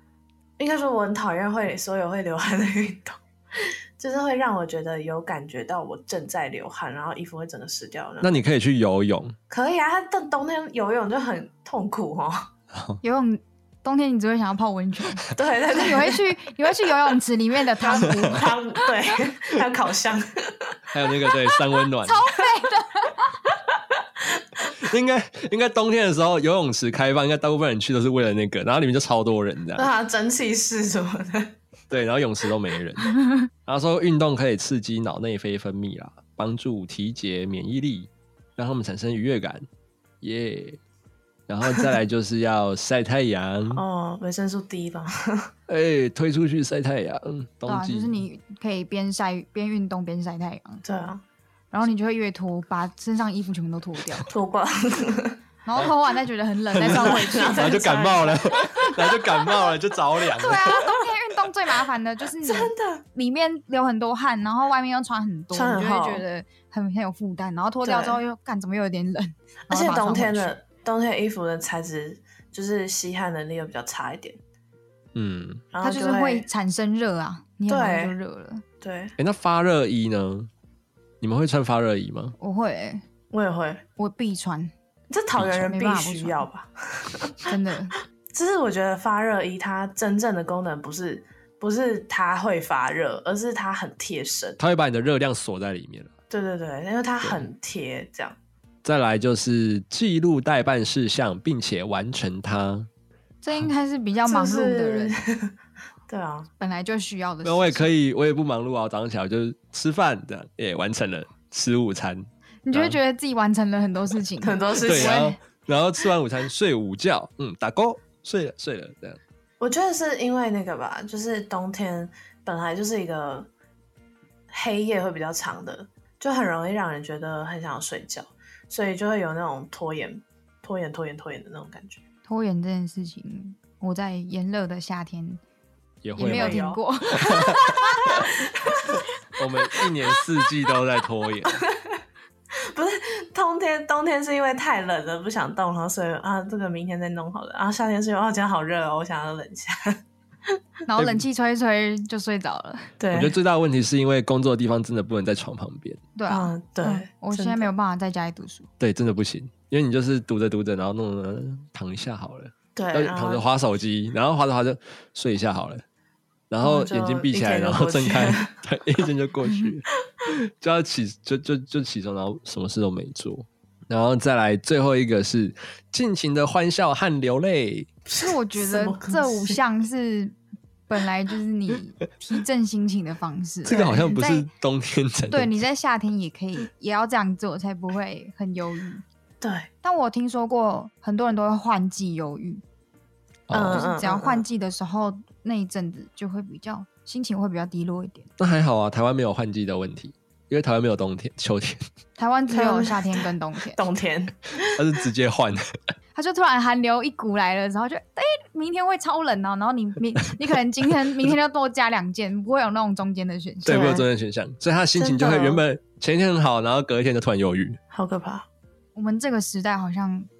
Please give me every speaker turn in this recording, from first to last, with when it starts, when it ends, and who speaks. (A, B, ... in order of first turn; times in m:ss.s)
0:00.6-0:08.3 A
0:08.2-0:09.4 B
0:09.5-0:12.5 A
0:12.7-0:13.0 B
0:13.0-0:18.8 C
0:15.3-0:16.3 A
0:17.8-0:20.8 A
0:20.9-0:22.3 B
0:22.0-0:23.4 C
0:24.8-0:29.9 B
0:29.8-0:31.5 A
0:31.9-0:39.6 B
0:40.2-0:40.8 B
0:41.5-0:43.8 B
0:43.7-0:45.5 A
0:45.7-0:48.2 B
0:47.6-0:50.8 C
0:50.8-0:51.2 A
0:51.7-0:54.3 C
0:54.3-0:55.4 A
0:55.6-0:57.7 C
0:56.7-1:00.8 B
0:56.9-0:59.7 A
1:00.3-1:10.6 C
1:02.4-1:03.0 A
1:05.5-1:06.2 A
1:07.8-1:08.2 A
1:09.7-1:14.4 A
1:15.1-1:15.6 B
1:15.7-1:16.5 A
1:15.8-1:18.6 C
1:17.7-1:18.1 A
1:18.8-1:19.1 A
1:19.2-1:20.5 B
1:21.2-1:22.4 B
1:22.4-1:23.0 C
1:23.3-1:23.8 A
1:24.0-1:24.7 C
1:25.1-1:27.5 A
1:25.4-1:25.7 B
1:25.7-1:26.4 C
1:27.4-1:28.0 C
1:28.3-1:34.6 A
1:34.6-1:36.1 B
1:36.3-1:38.4 A
1:38.8-1:42.9 B
1:43.4-1:45.2 C
1:44.2-1:45.5 A
1:46.1-1:46.5 A
1:46.6-1:47.9 C
1:47.4-1:53.0 B
1:52.6-1:55.4 C
1:54.4-1:55.3 A
1:54.8-1:59.2 B
1:59.6-2:03.5 A
2:04.5-2:12.0 A
2:12.2-2:15.4 C
2:16.0-2:17.8 B
2:16.2-2:18.3 C
2:16.2-2:16.8 A
2:18.0-2:19.0 A
2:19.4-2:21.6 B
2:21.4-2:22.0 A
2:22.7-2:30.0 A
2:30.9-2:32.9 C
2:31.0-2:31.2 B
2:33.0-2:33.4 A
2:33.1-2:36.0 B
2:36.2-2:38.7 C
2:36.3-2:37.7 A
2:38.8-2:45.8 B
2:42.8-2:43.4 A
2:46.5-2:57.9 B
2:46.6-2:48.5 A
2:58.1-2:59.6 A
2:58.2-3:00.3 C
3:00.9-3:04.5 C
3:03.6-3:05.6 B
3:03.7-3:04.1 A
3:05.3-3:09.0 C
3:09.4-3:09.7 A
3:09.8-3:12.6 C
3:13.5-3:13.8 B
3:13.5-3:14.4 A
3:13.7-3:18.3 C
3:18.4-3:21.8 B
3:22.2-3:23.8 C
3:22.5-3:24.8 A
3:24.8-3:25.6 B
3:26.1-3:34.0 C
3:33.6-3:37.8 B
3:33.7-3:34.0 A
3:35.0-3:35.6 A
3:37.9-3:38.5 A
3:38.9-3:40.3 C